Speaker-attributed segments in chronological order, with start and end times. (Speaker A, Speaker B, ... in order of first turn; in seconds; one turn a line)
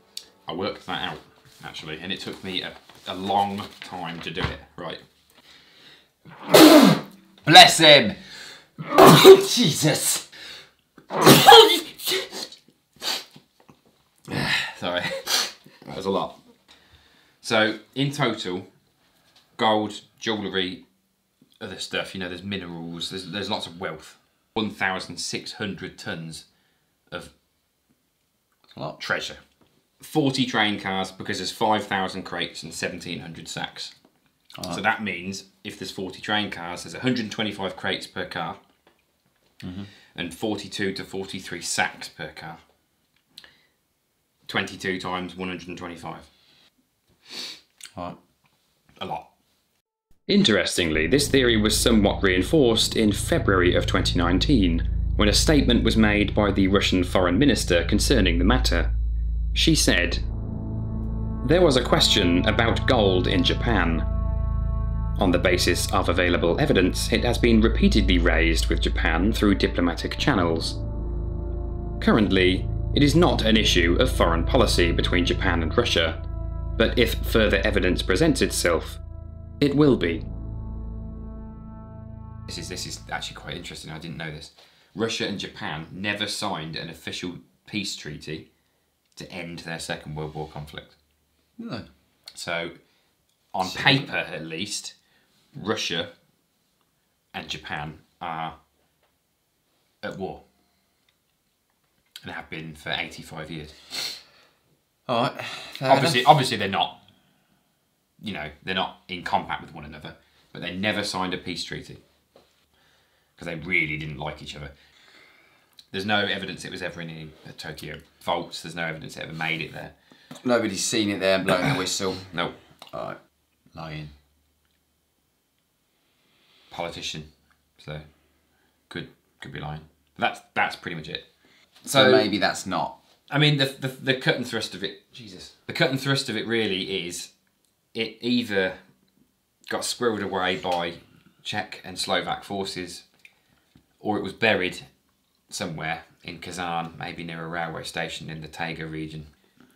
Speaker A: 0.5-5.0
Speaker B: 7.4-10.3
Speaker B: 11.1-12.5
Speaker A: 14.3-16.4
Speaker A: 17.4-18.7
Speaker A: 19.6-20.8
Speaker A: 21.6-26.4
Speaker B: 28.7-29.0
Speaker A: 29.0-29.4
Speaker A: 30.0-33.9
Speaker B: 34.5-34.8
Speaker A: 34.7-38.6
Speaker B: 39.6-39.9
Speaker A: 40.1-42.6
Speaker A: 44.5-46.3
Speaker A: 49.0-49.3
Speaker C: 50.3-58.9
Speaker C: 59.5-60.2
Speaker C: 61.4-64.0
Speaker C: 65.2-70.8
Speaker C: 72.0-76.2
Speaker C: 76.8-79.0
Speaker C: 79.6-80.2
Speaker A: 82.5-88.5
Speaker A: 89.1-90.9
Speaker B: 91.6-91.8
Speaker A: 92.3-92.7
Speaker A: 93.5-94.9
Speaker B: 93.6-94.1
Speaker A: 95.5-96.1
Speaker A: 97.3-98.6
Speaker A: 100.0-100.4
Speaker A: 102.2-104.2
Speaker B: 105.1-106.4
Speaker A: 105.9-107.0
Speaker A: 108.2-112.0
Speaker A: 113.4-114.7
Speaker A: 115.9-119.9
Speaker B: 120.4-122.3
Speaker A: 122.3-122.5
Speaker B: 122.9-123.2
Speaker B: 123.7-124.1
Speaker A: 126.7-128.1
Speaker A: 128.9-131.3
Speaker B: 131.8-133.0
Speaker A: 131.9-132.3
Speaker A: 133.3-137.3
Speaker A: 137.9-138.8
Speaker A: 139.7-143.0
Speaker A: 144.0-144.9
Speaker A: 145.5-149.3